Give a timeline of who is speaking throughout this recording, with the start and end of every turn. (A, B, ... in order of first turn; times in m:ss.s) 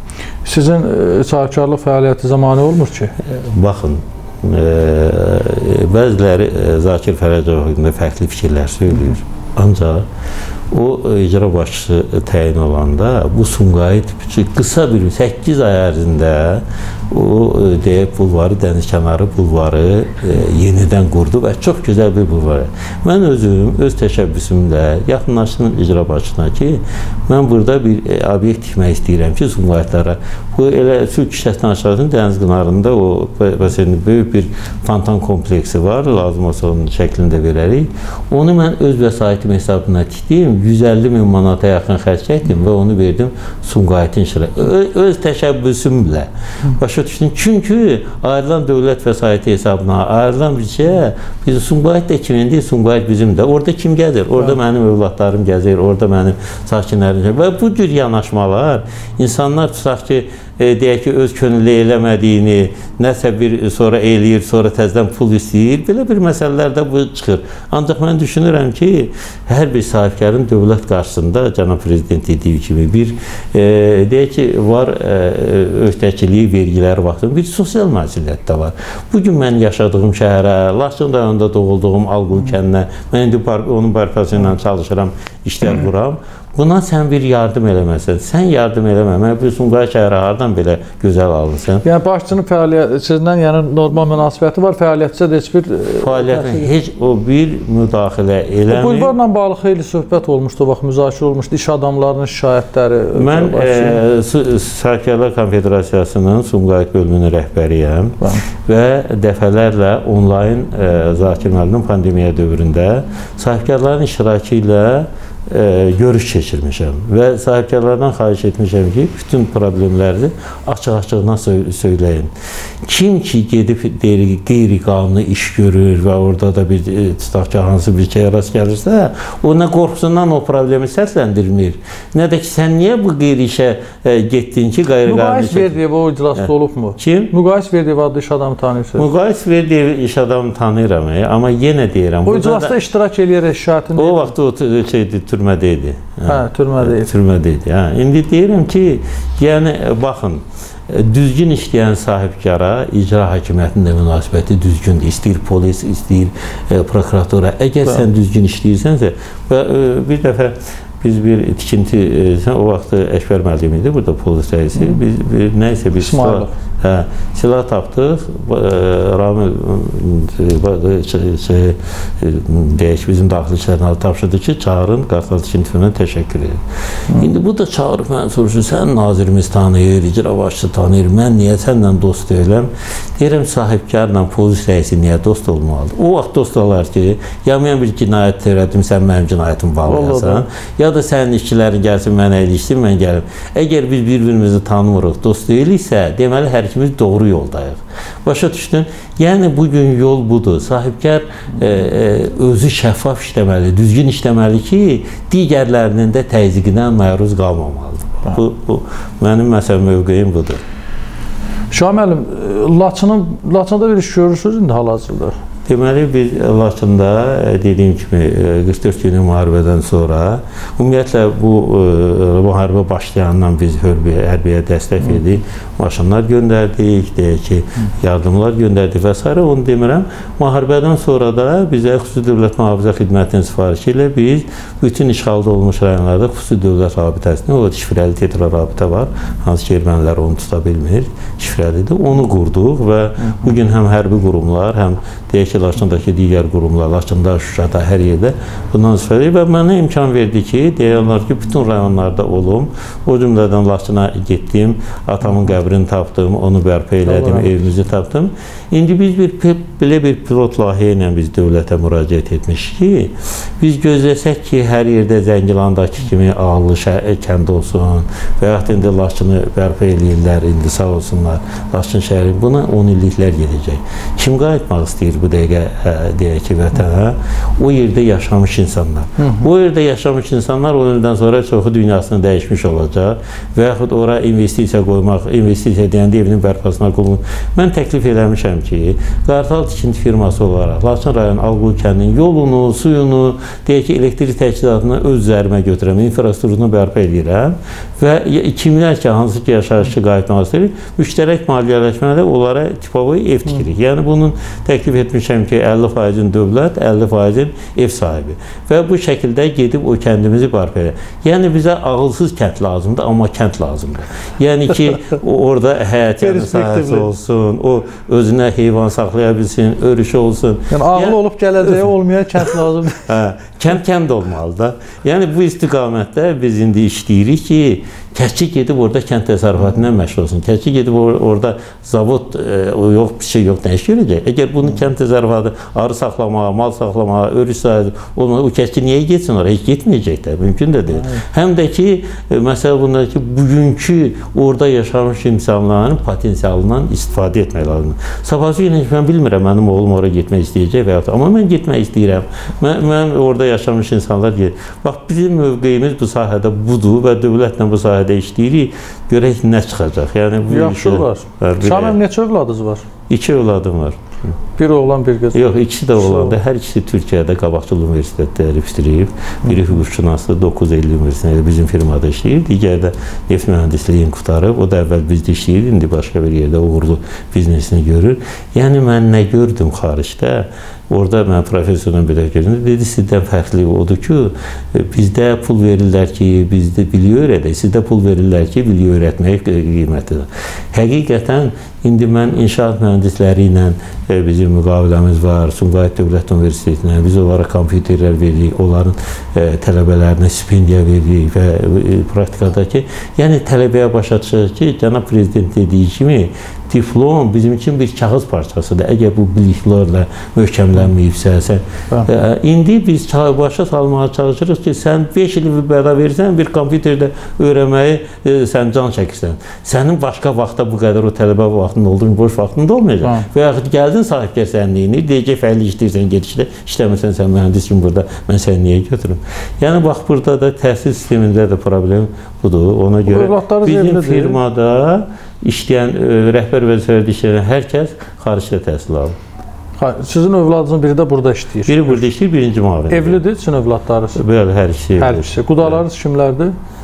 0:00.4-0:03.2 A
0:03.3-0:10.0 B
0:10.7-1:31.8 B
1:31.8-1:36.7 A
1:36.0-1:39.1 B
1:38.7-1:44.0 A
1:43.1-2:02.3 B
2:02.8-2:15.8 B
2:15.1-2:19.1 A
2:16.4-2:17.3 B
2:19.0-2:22.8 B
2:22.3-2:24.3 A
2:24.0-3:30.6 B
2:26.3-2:27.1 A
2:46.0-2:46.5 A
3:09.9-3:10.4 A
3:31.7-3:35.3 A
3:35.7-5:21.2 B
4:17.1-4:17.5 A
4:39.2-4:39.5 A
5:16.2-5:17.1 A
5:20.7-5:23.1 A
5:23.0-6:02.0 B
6:00.5-6:02.9 A
6:03.1-6:04.0 B
6:04.6-6:05.4 A
6:05.3-7:19.2 B
6:06.0-6:06.4 A
7:13.1-7:14.4 A
7:19.8-7:22.0 A
7:21.7-7:23.2 B
7:22.9-7:24.2 A
7:24.2-7:25.8 B
7:25.0-7:26.5 A